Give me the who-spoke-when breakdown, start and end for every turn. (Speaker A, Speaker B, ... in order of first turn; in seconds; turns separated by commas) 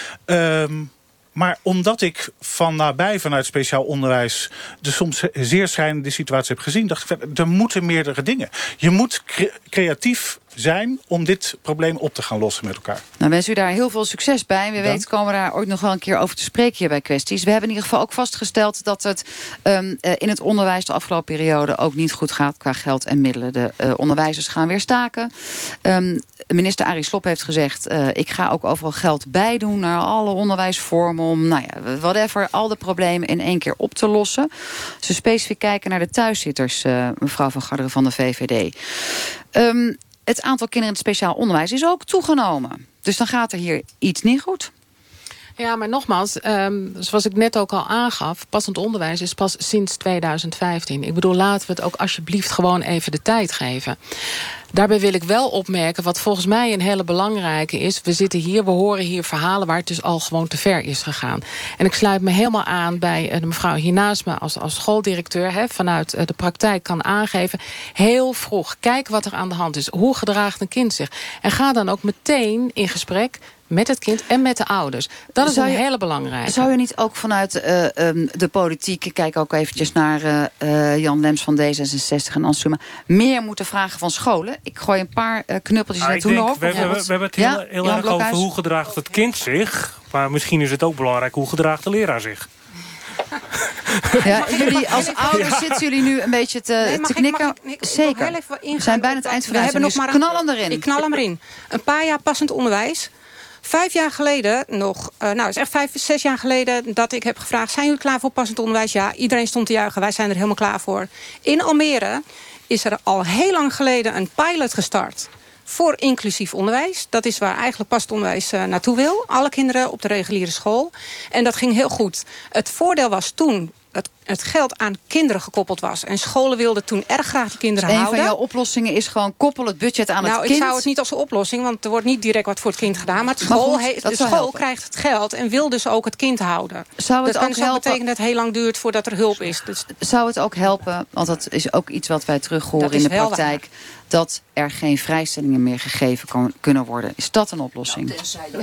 Speaker A: 0.3-13.0, Speaker B: 13.2-25.3, Speaker A: 14.8-15.0, Speaker B: 25.9-34.5, Speaker B: 35.0-44.7, Speaker C: 45.6-54.0, Speaker C: 54.7-76.7, Speaker B: 75.4-75.8, Speaker B: 76.5-88.5, Speaker D: 86.0-92.5, Speaker D: 93.9-95.8, Speaker B: 94.2-101.0, Speaker E: 94.2-95.5, Speaker E: 96.8-103.1, Speaker E: 103.6-128.3, Speaker B: 127.8-130.9, Speaker E: 130.2-139.9, Speaker B: 133.4-134.6, Speaker B: 137.0-138.0, Speaker B: 140.0-148.2, Speaker E: 142.8-143.6